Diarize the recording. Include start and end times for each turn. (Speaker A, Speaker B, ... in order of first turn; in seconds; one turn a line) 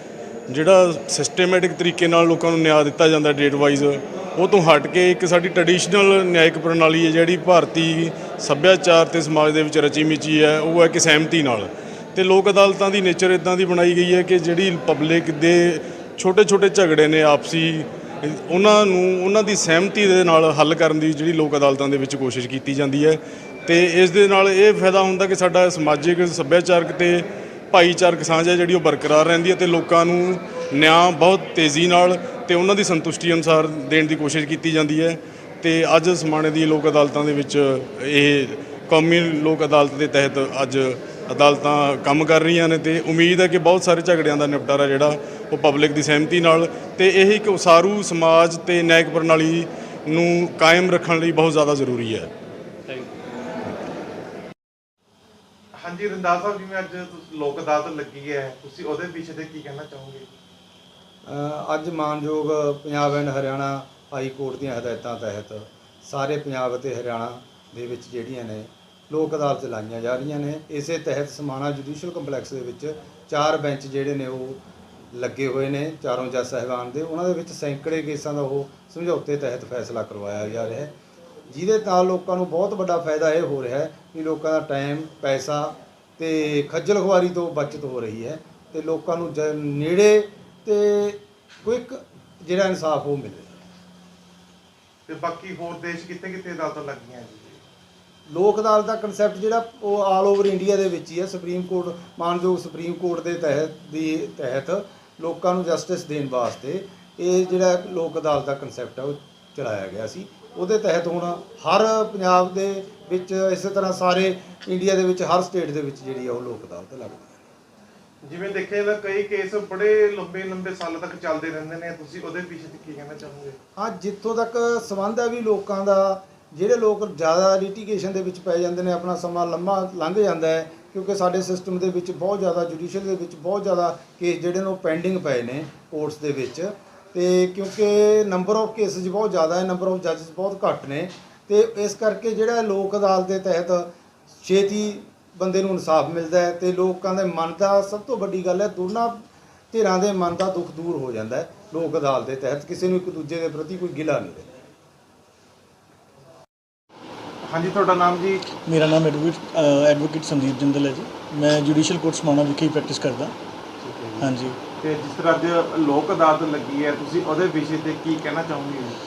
Speaker A: 0.5-52.3
Speaker B: 55.8-60.3
Speaker C: 61.2-74.6
Speaker C: 75.1-80.9
Speaker C: 81.5-93.6
Speaker B: 95.1-97.6
Speaker C: 98.3-117.4
Speaker B: 118.2-123.6
Speaker C: 123.8-143.9
Speaker C: 144.4-154.5
Speaker B: 157.4-158.4
Speaker D: 158.7-163.4
Speaker B: 163.8-169.0
Speaker D: 164.2-164.6